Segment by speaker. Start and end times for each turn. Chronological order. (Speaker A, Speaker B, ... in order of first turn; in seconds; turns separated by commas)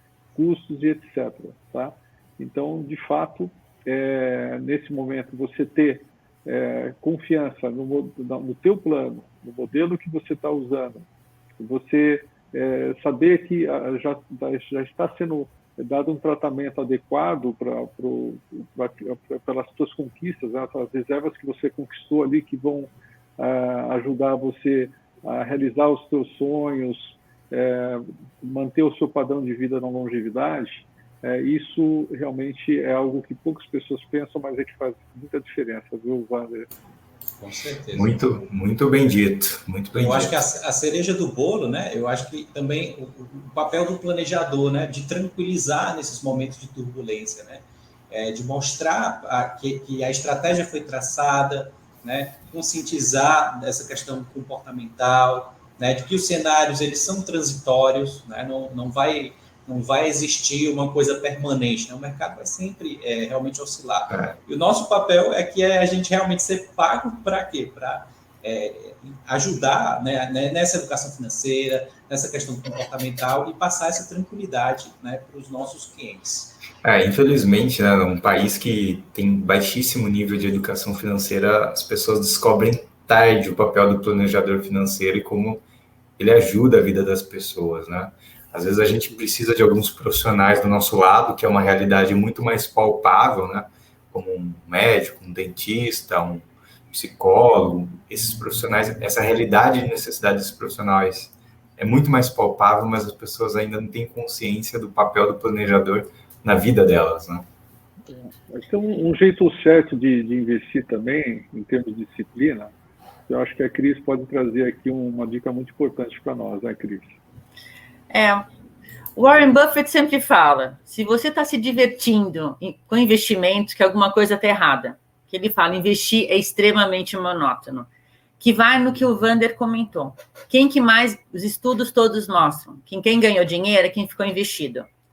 Speaker A: 0.3-11.1, Speaker A: 11.6-36.7, Speaker B: 37.4-38.1, Speaker C: 37.9-40.4, Speaker B: 40.0-76.6, Speaker C: 64.1-64.3, Speaker C: 76.8-85.6, Speaker C: 86.2-107.4, Speaker A: 108.0-112.7, Speaker A: 113.3-117.2, Speaker D: 118.1-118.5, Speaker D: 119.2-127.9, Speaker D: 128.4-134.9